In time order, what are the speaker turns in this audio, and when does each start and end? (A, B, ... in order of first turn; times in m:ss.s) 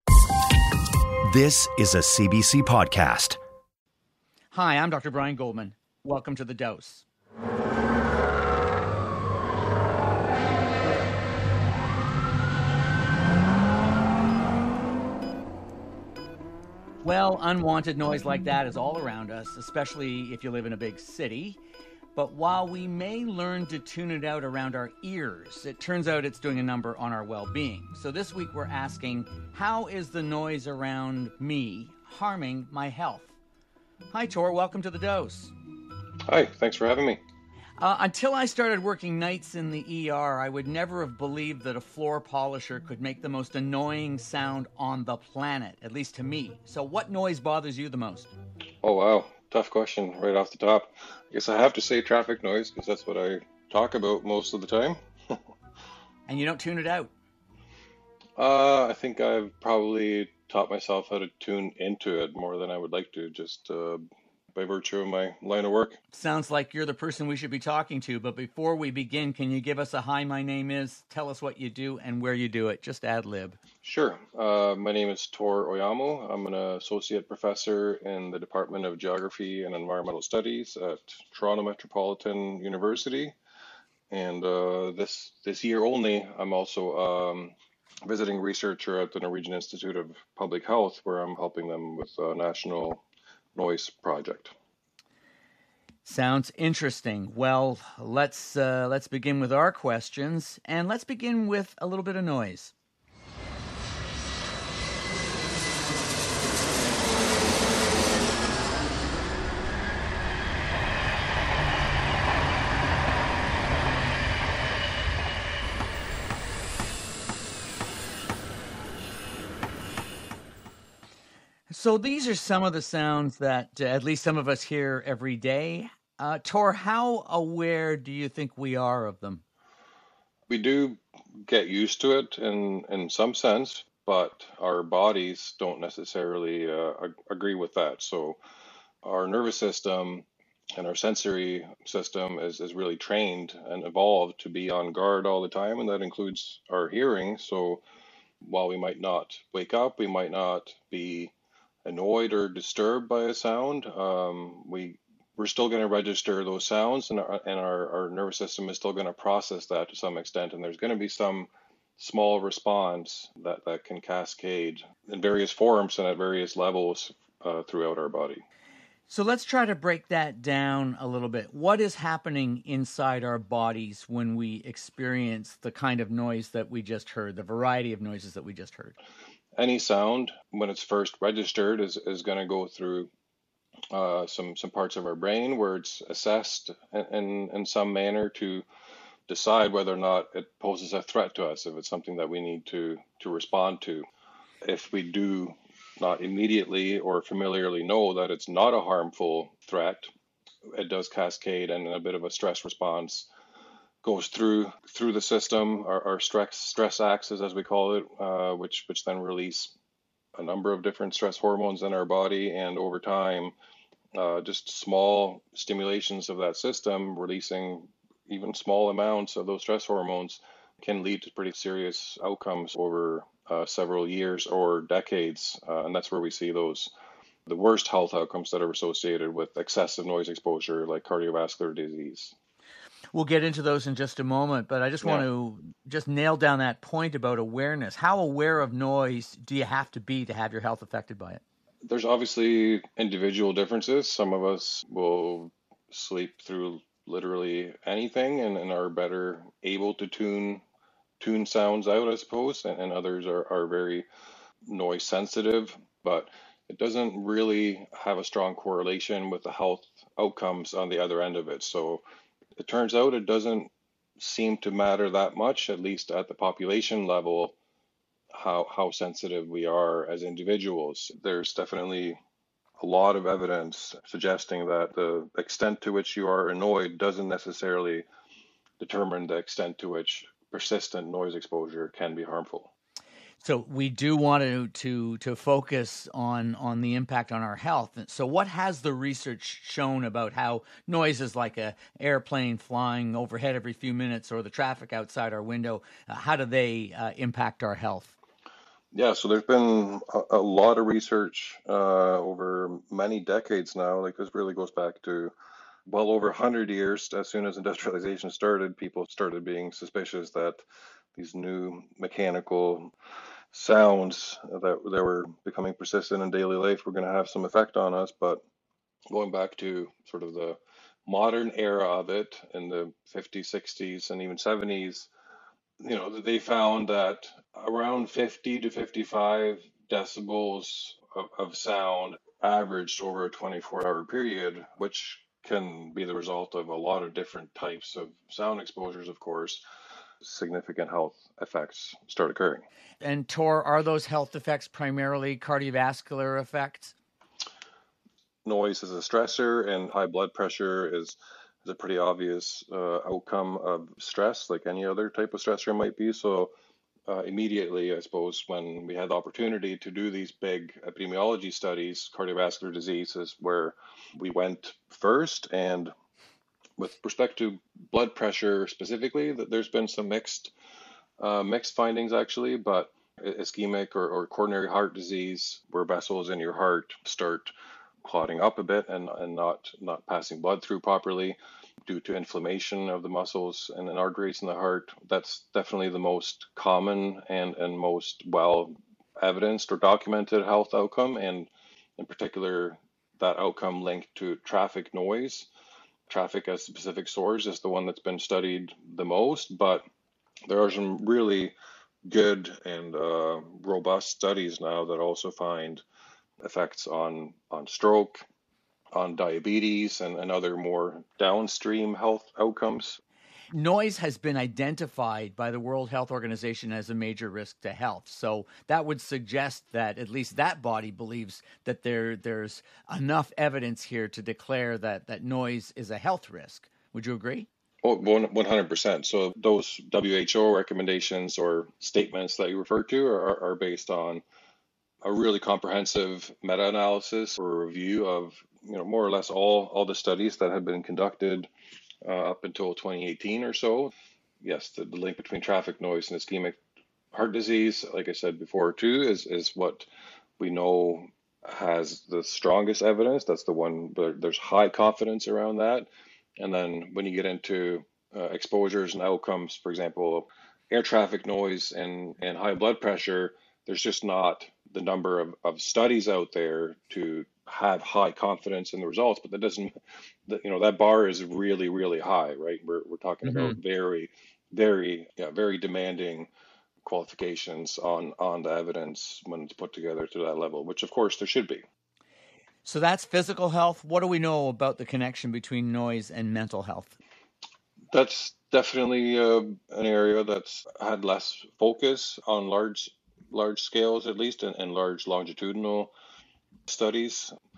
0:01.2-0:03.4 A
0:04.5-0:07.0 B
0:17.0-0:21.6 B
0:22.1-0:33.3 B
0:34.1-0:35.5 B
0:36.3-0:37.2 C
0:37.8-0:48.3 B
0:48.8-0:55.4 C
0:56.3-0:57.1 B
0:58.4-1:06.0 C
1:06.1-1:13.6 B
1:13.8-1:23.4 C
1:24.1-1:27.5 C
1:28.0-1:33.0 C
1:33.5-1:34.5 C
1:36.0-1:42.7 B
2:01.7-2:09.4 B
2:10.5-2:18.4 C
2:19.0-2:27.8 C
2:28.4-2:31.3 C
2:31.8-2:48.4 C
2:49.1-2:58.9 B
2:59.6-3:03.1 C
3:03.9-3:08.6 C
3:09.3-3:14.1 C
3:14.6-3:20.1 C
3:20.7-3:23.3 C
3:24.0-3:29.7 C
3:30.4-3:33.5 C
3:34.1-3:46.9 C
3:47.5-3:52.3 C
3:53.1-4:01.4 B
4:01.8-4:10.6 C
4:11.2-4:14.1 C
4:14.6-4:22.0 C
4:22.6-4:27.5 C
4:28.3-4:32.2 C
4:32.8-4:38.0 C
4:38.8-4:42.7 C
4:43.4-4:58.1 B
4:58.9-5:05.3 C
5:05.9-5:10.6 C
5:11.1-5:12.9 C
5:13.5-5:18.4 C
5:19.1-5:25.1 C
5:25.8-5:39.6 C
5:40.2-5:42.6 C
5:43.0-5:46.9 B
5:48.4-5:56.5 C
5:57.1-6:05.9 C
6:06.8-6:10.5 C
6:11.2-6:17.5 C
6:18.0-6:35.5 C
6:36.1-6:39.8 C
6:40.5-6:45.8 C
6:46.4-6:48.2 C
6:48.9-6:53.0 C
6:53.5-7:07.5 B
7:07.8-7:14.2 C
7:15.0-7:21.5 C
7:22.0-7:26.6 C
7:27.1-7:29.9 C
7:30.4-7:35.9 C
7:36.4-7:49.7 C
7:50.3-7:56.3 C
7:53.2-7:53.6 B
7:56.8-8:01.6 C
8:02.6-8:07.0 B
8:07.9-8:15.9 C
8:16.7-8:17.3 C